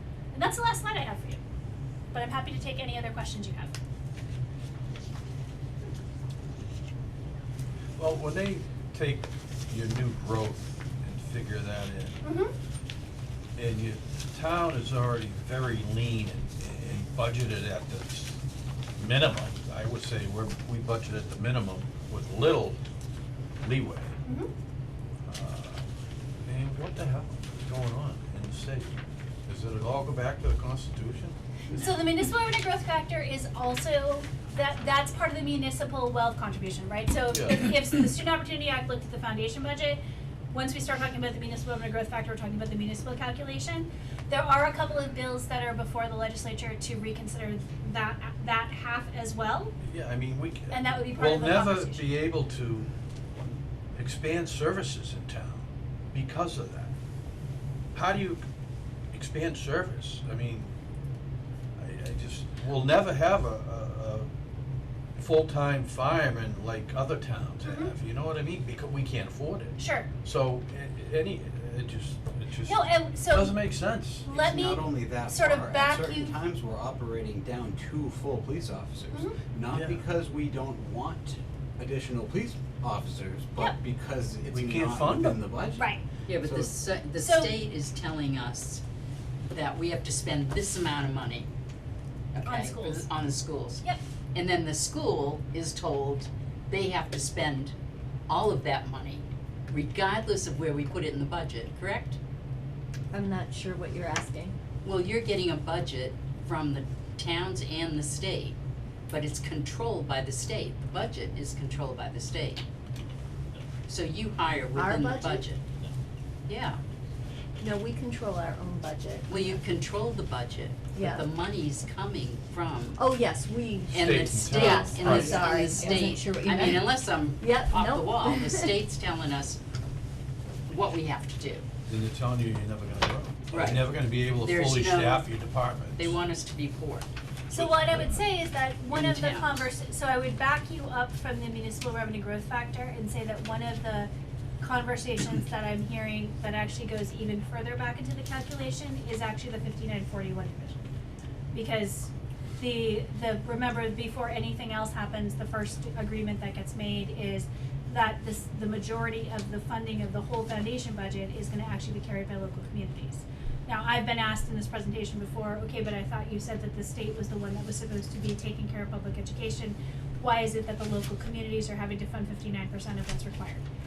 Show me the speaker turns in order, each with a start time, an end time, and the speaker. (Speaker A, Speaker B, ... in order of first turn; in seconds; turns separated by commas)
Speaker A: 0.3-1.4, Speaker A: 2.1-3.7, Speaker B: 8.0-12.2, Speaker A: 12.2-12.5, Speaker B: 13.6-18.4, Speaker B: 19.0-22.8, Speaker B: 23.6-24.1, Speaker A: 24.2-24.5, Speaker B: 25.2-25.8, Speaker B: 26.4-31.4, Speaker A: 31.7-49.8, Speaker B: 37.3-37.8, Speaker B: 49.8-52.9, Speaker A: 50.7-52.1, Speaker B: 54.0-56.9, Speaker B: 57.9-58.4, Speaker B: 59.1-60.7, Speaker B: 61.8-64.3, Speaker B: 65.2-74.3, Speaker A: 67.6-67.9, Speaker A: 69.8-70.1, Speaker A: 72.7-73.6, Speaker A: 74.2-76.4, Speaker C: 74.3-86.8, Speaker A: 79.1-79.4, Speaker B: 79.7-80.0, Speaker B: 84.5-85.4, Speaker A: 85.8-86.0, Speaker D: 86.3-88.8, Speaker A: 87.2-87.5, Speaker D: 89.5-91.5, Speaker D: 92.3-93.8, Speaker A: 92.4-93.1, Speaker D: 94.3-97.7, Speaker D: 98.3-102.2, Speaker E: 103.1-104.5, Speaker D: 104.8-108.5, Speaker D: 109.1-112.6, Speaker D: 113.9-115.6, Speaker E: 114.7-115.4, Speaker D: 116.5-116.8, Speaker E: 117.6-119.6, Speaker D: 119.3-123.0, Speaker E: 120.9-121.2, Speaker E: 123.0-128.7, Speaker B: 123.9-126.0, Speaker D: 123.9-129.6, Speaker D: 130.7-131.6, Speaker B: 131.8-136.2, Speaker D: 133.5-135.3, Speaker D: 135.9-137.1, Speaker A: 137.5-150.8, Speaker B: 137.5-138.2, Speaker D: 138.9-139.7, Speaker A: 151.5-173.6